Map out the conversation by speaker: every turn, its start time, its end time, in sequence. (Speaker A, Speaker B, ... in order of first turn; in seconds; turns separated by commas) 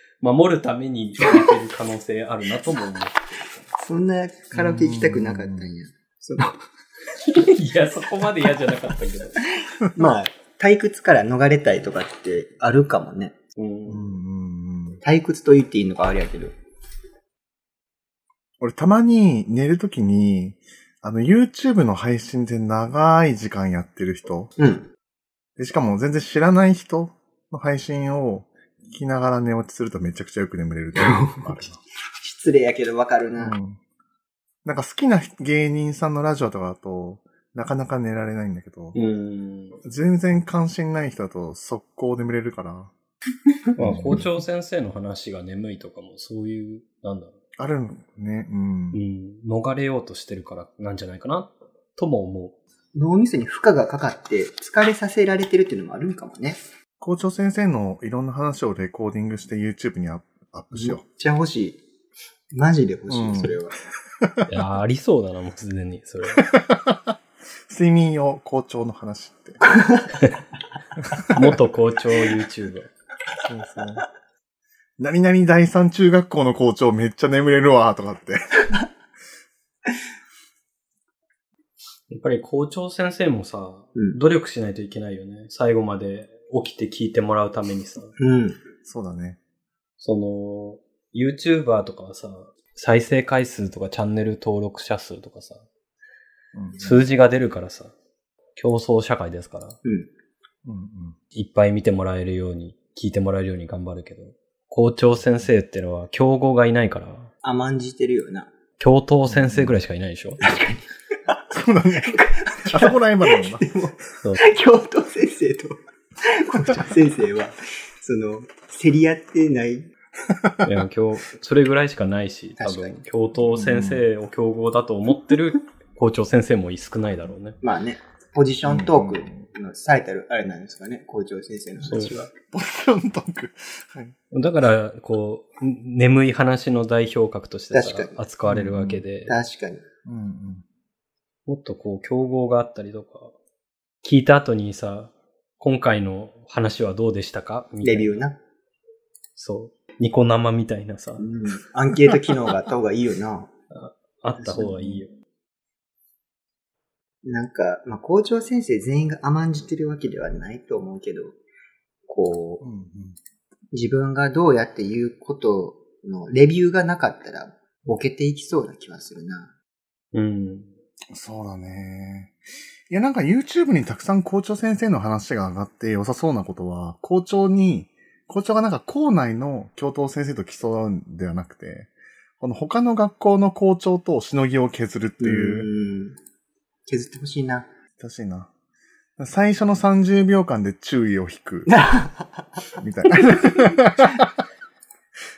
Speaker A: 0.2-3.6, Speaker B: 3.8-6.6, Speaker C: 4.5-5.7, Speaker A: 7.2-9.4, Speaker B: 9.8-13.3, Speaker A: 13.6-14.2, Speaker C: 13.9-15.0, Speaker B: 15.0-16.5, Speaker C: 18.6-24.5, Speaker B: 24.6-24.9, Speaker C: 25.6-31.8, Speaker B: 30.9-31.6, Speaker B: 32.2-33.5, Speaker C: 33.4-33.8, Speaker C: 34.6-39.0, Speaker A: 38.9-39.8, Speaker C: 39.8-42.9, Speaker A: 43.8-47.3, Speaker C: 43.8-44.3, Speaker C: 47.6-49.0, Speaker A: 48.9-52.5, Speaker B: 52.9-56.6, Speaker C: 57.0-61.0, Speaker B: 60.7-61.8, Speaker B: 62.5-63.8, Speaker C: 63.1-63.6, Speaker C: 64.2-64.5, Speaker A: 64.5-66.5, Speaker C: 66.5-67.1, Speaker C: 67.7-69.6, Speaker A: 71.2-72.9, Speaker C: 73.4-74.0, Speaker C: 75.0-78.7, Speaker A: 82.1-88.1, Speaker B: 88.2-88.6, Speaker C: 88.8-89.4, Speaker A: 90.0-95.6, Speaker C: 96.5-97.0, Speaker A: 96.8-97.9, Speaker A: 98.5-99.8, Speaker B: 99.8-100.1, Speaker C: 100.6-101.2, Speaker A: 101.3-107.3, Speaker B: 107.4-108.5, Speaker A: 108.8-110.5, Speaker C: 109.3-109.7, Speaker B: 110.5-111.5, Speaker C: 111.5-113.7, Speaker B: 112.0-115.8, Speaker A: 114.2-114.5, Speaker B: 116.3-119.9, Speaker C: 120.3-120.6, Speaker A: 120.6-127.6, Speaker B: 122.6-123.0, Speaker C: 123.4-124.0, Speaker B: 127.6-132.3, Speaker C: 128.6-129.4, Speaker A: 131.9-132.1, Speaker C: 132.5-134.1, Speaker A: 134.3-139.4, Speaker B: 137.7-138.2, Speaker C: 138.4-139.0, Speaker B: 139.3-139.8, Speaker C: 140.1-140.6, Speaker A: 141.5-143.3, Speaker A: 144.0-148.2, Speaker B: 147.8-148.4, Speaker A: 149.4-151.2, Speaker B: 151.2-153.5, Speaker A: 153.7-155.1, Speaker B: 154.4-155.0, Speaker B: 157.2-161.4, Speaker B: 162.1-162.6, Speaker C: 162.6-163.2, Speaker B: 163.7-169.5, Speaker A: 170.1-170.7, Speaker C: 171.1-172.4, Speaker C: 172.9-185.7, Speaker B: 185.2-186.2, Speaker B: 186.9-187.7, Speaker C: 188.0-188.5, Speaker C: 189.2-191.7, Speaker B: 191.7-192.5, Speaker C: 192.8-194.2